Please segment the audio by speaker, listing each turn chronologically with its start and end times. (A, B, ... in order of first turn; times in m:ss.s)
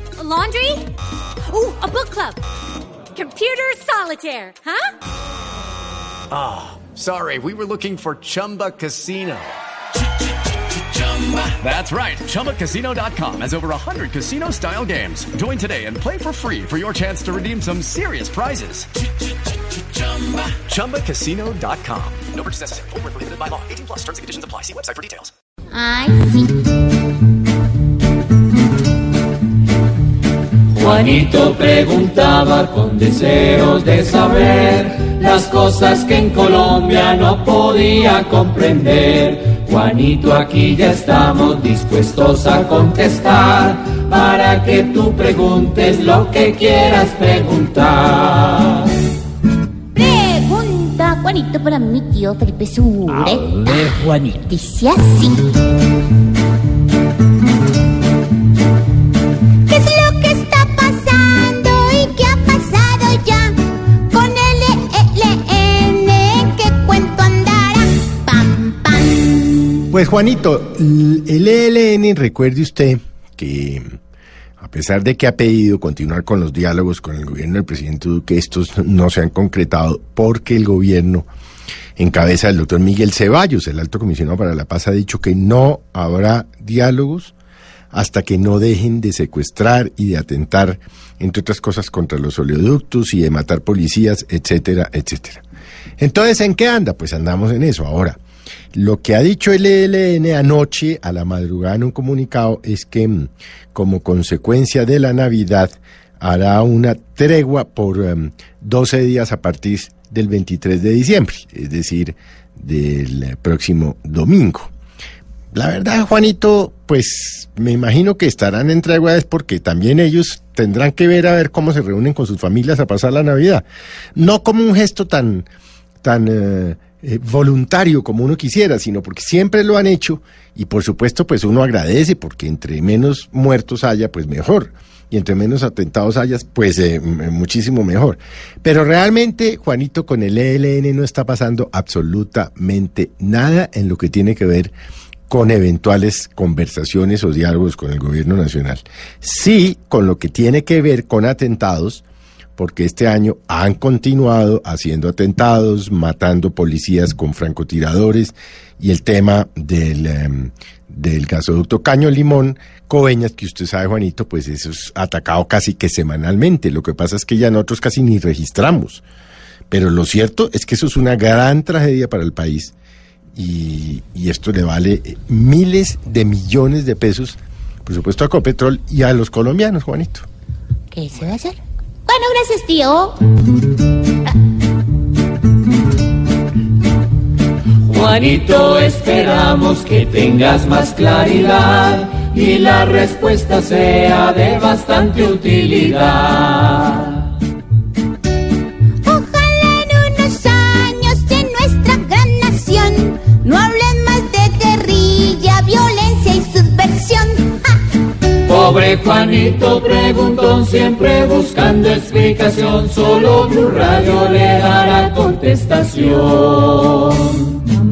0:00.2-0:00.8 A
0:01.5-0:02.4 A
0:03.1-0:04.9 A
0:06.3-0:09.6 B
0:10.9-0:18.9 B
0:19.9-0:25.3 B
0:25.7-0:26.7 C
0:30.7-0:48.9 D
0:49.9-0:55.5 C
0:59.7-1:09.8 C
1:09.9-1:13.9 E
1:14.6-1:21.3 E
1:22.0-1:27.3 E
1:27.9-1:35.4 E
1:36.0-1:38.2 E
1:38.7-1:54.7 E
1:55.5-2:05.5 E
2:06.0-2:24.7 E
2:25.3-2:32.0 E
2:32.6-2:49.0 E
2:49.7-2:52.7 E
2:53.3-3:00.3 E
3:00.9-3:03.2 C
3:07.8-3:17.3 D
3:19.0-3:27.8 C
3:28.4-3:37.6 D